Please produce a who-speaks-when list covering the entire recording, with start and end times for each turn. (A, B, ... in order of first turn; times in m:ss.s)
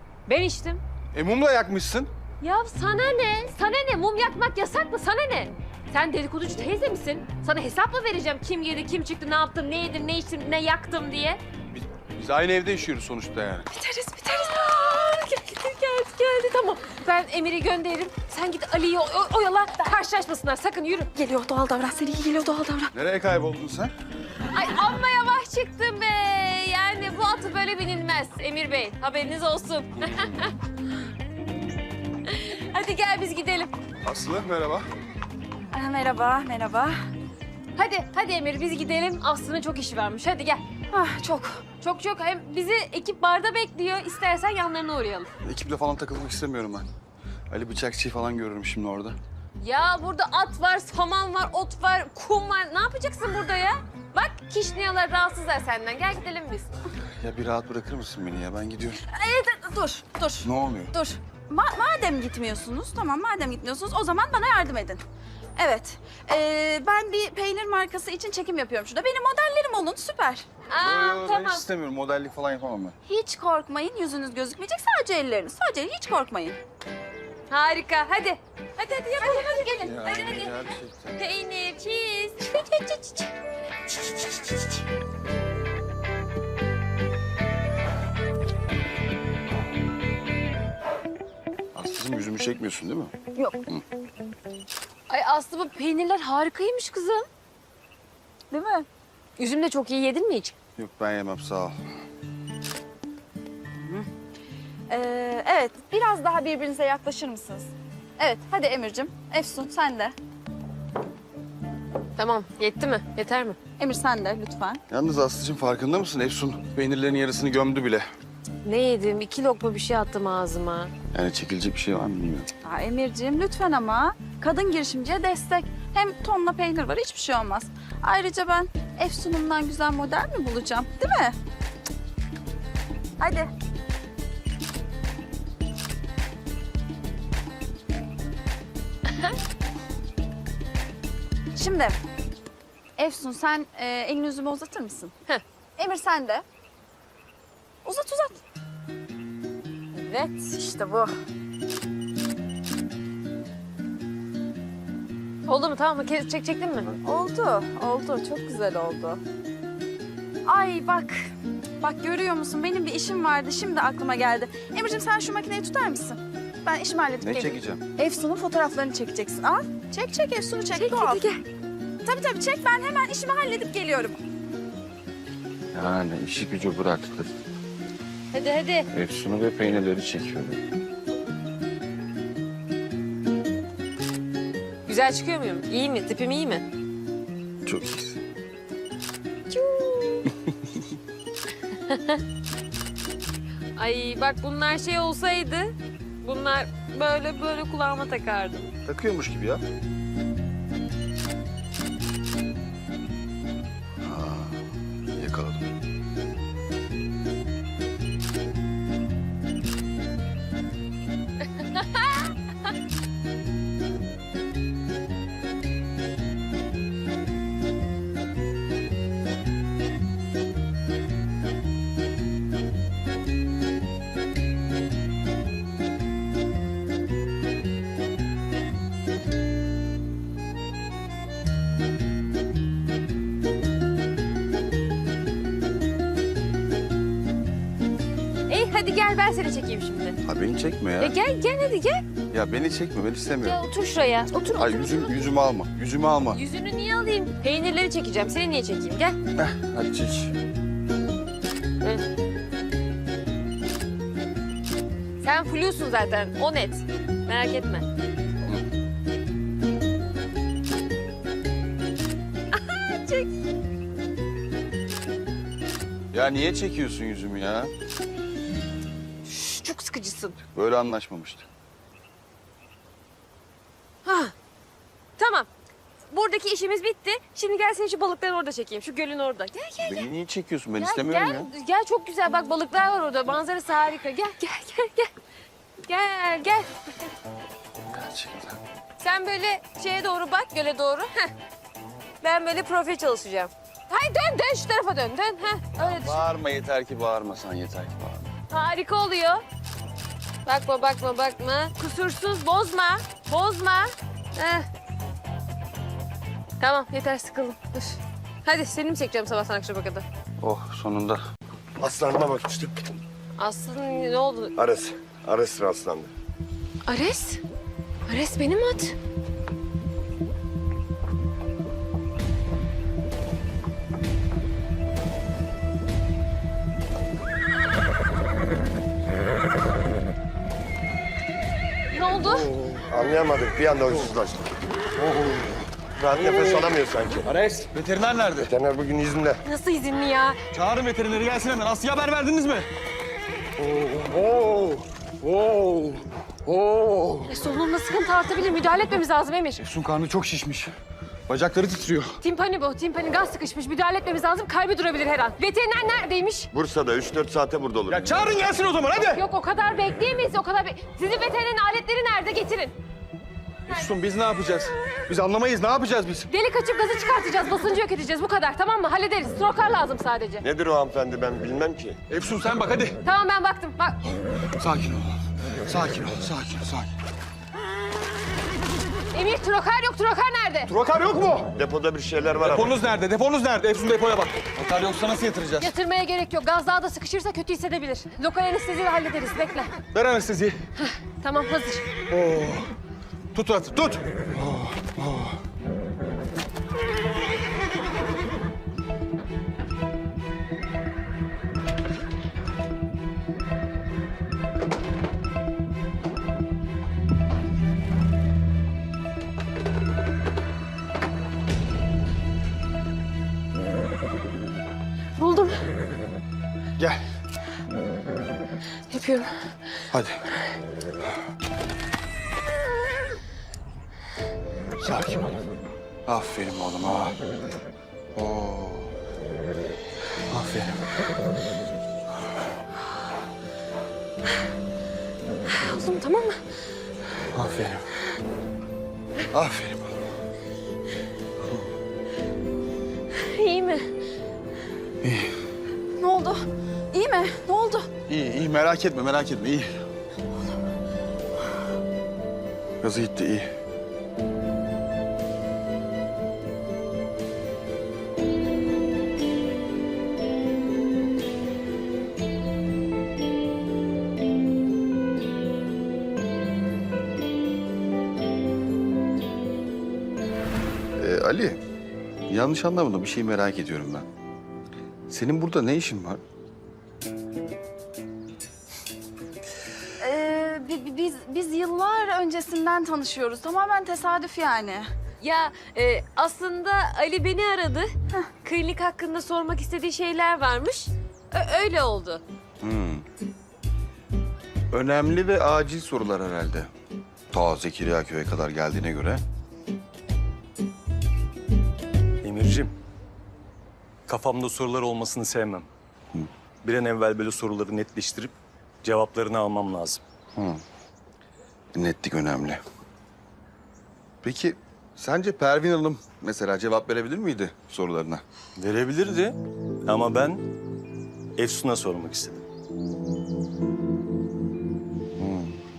0:00.3-0:00.8 A
0:01.1-0:02.1 B
0:02.4-0:11.4 A
0:11.7-0:13.7 B
0:14.2-0:21.1 A
0:21.2-0:22.9 C
0:22.9-0:23.9 B
0:24.5-0:30.5 A
0:32.3-0:33.7 A
0:34.0-0:34.8 B
0:35.7-0:37.0 C
0:37.8-0:40.6 A
0:40.9-0:41.6 C
0:41.8-0:45.3 A
0:45.4-0:46.9 B
0:47.5-0:49.2 B
0:49.6-0:56.7 A
0:57.2-0:59.0 B
0:59.1-1:05.0 C
1:00.4-1:00.9 B
1:05.6-1:10.5 C
1:10.7-1:11.6 A
1:10.8-1:13.0 B
1:13.1-1:16.6 C
1:17.5-1:20.5 A
1:19.2-1:19.7 C
1:19.8-1:21.2 B
1:21.2-1:23.3 A
1:31.7-1:33.1 B
1:35.1-1:37.3 A
1:38.5-1:38.9 C
1:39.4-1:40.5 A
1:40.8-1:41.8 B
1:44.9-1:50.2 C
1:52.2-1:53.6 A
1:53.8-1:54.8 C
1:54.9-1:58.1 B
1:58.6-2:00.9 A
2:01.1-2:02.5 B
2:02.6-2:11.4 C
2:13.2-2:13.5 C
2:21.6-2:22.0 C
2:23.0-2:25.1 C
2:25.8-2:26.4 C
2:27.8-2:28.4 C
2:29.9-2:30.3 A
2:30.4-2:31.1 C
2:35.5-2:36.9 A
2:37.0-2:39.2 C
2:40.4-2:51.2 C
2:47.2-2:47.8 B
2:50.7-2:51.4 A
2:52.0-2:54.2 C
2:55.7-2:57.3 B
2:58.3-2:58.9 A
2:58.9-3:00.6 B
3:04.9-3:06.6 A
3:07.6-3:08.2 B
3:09.5-3:10.2 A
3:11.9-3:12.2 A
3:13.8-3:18.7 A
3:18.8-3:19.6 B
3:24.0-3:25.8 B
3:31.8-3:32.2 A
3:58.5-4:00.2 A
4:00.2-4:01.2 B
4:01.0-4:02.0 A
4:02.3-4:03.6 B
4:03.4-4:05.2 A
4:04.6-4:06.4 B
4:06.3-4:09.2 A
4:09.4-4:10.3 B
4:15.2-4:17.8 A
4:22.6-4:23.3 A
4:26.1-4:27.7 B
4:29.3-4:30.4 A
4:30.5-4:31.5 B
4:34.0-4:34.3 A
4:35.2-4:35.5 A
4:36.1-4:40.0 A
4:39.8-4:41.5 B
4:40.8-4:45.1 A
4:45.9-4:46.7 A
4:47.9-4:48.6 B
4:49.0-4:51.3 A
4:52.2-4:56.2 A
4:55.8-4:58.3 B
4:58.5-4:59.4 A
5:00.5-5:04.7 A
5:06.6-5:10.0 A
5:10.4-5:11.2 B
5:11.8-5:13.0 D
5:13.4-5:14.5 A
5:14.6-5:16.1 D
5:16.9-5:17.4 A
5:18.1-5:19.0 A
5:31.9-5:32.5 A
5:32.6-5:34.5 D
5:35.0-5:35.4 B
5:36.0-5:37.2 D
5:36.2-5:36.5 B
5:37.2-5:38.5 B
5:38.4-5:39.4 D
5:39.4-5:40.4 A
5:40.5-5:42.7 B
5:43.6-5:47.3 B
5:47.3-5:49.6 A
5:49.6-5:50.7 B
5:51.3-5:52.2 B
5:52.2-5:56.5 A
5:56.5-5:58.0 D
5:57.9-5:59.2 B
5:58.9-6:02.7 A
6:03.7-6:06.3 B
6:06.3-6:10.4 A
6:10.4-6:12.0 D
6:12.1-6:13.0 B
6:13.0-6:14.0 A
6:14.6-6:15.2 B
6:15.7-6:16.9 B
6:19.1-6:20.7 A
6:20.7-6:21.5 B
6:21.6-6:22.8 D
6:22.4-6:25.7 B
6:25.6-6:29.7 A
6:29.9-6:30.6 B
6:30.8-6:31.9 A
6:32.1-6:32.7 B
6:33.3-6:35.4 B
6:55.2-6:55.6 A
6:58.9-6:59.4 A
6:59.9-7:00.2 B
7:04.8-7:05.4 B
7:06.1-7:07.2 B
7:08.2-7:08.9 B
7:10.3-7:10.8 B
7:15.5-7:16.4 A
7:17.3-7:17.8 B
7:19.3-7:20.0 B
7:23.2-7:23.9 A
7:25.0-7:25.4 B
7:26.0-7:27.9 C
7:28.1-7:29.7 B
7:32.8-7:33.5 B
7:51.0-7:51.6 B
7:52.3-7:54.1 B
7:55.1-7:56.2 B
8:00.0-8:04.9 C
8:05.2-8:07.9 A
8:08.4-8:12.2 A
8:12.6-8:13.0 B
8:14.7-8:16.7 B
8:17.3-8:19.2 B
8:22.2-8:22.7 E
8:24.1-8:25.7 E
8:26.6-8:30.0 E
8:30.4-8:30.6 B
8:31.8-8:32.6 B
8:34.2-8:39.4 B
8:39.9-8:40.4 E
8:41.4-8:42.4 E
8:45.2-8:45.6 B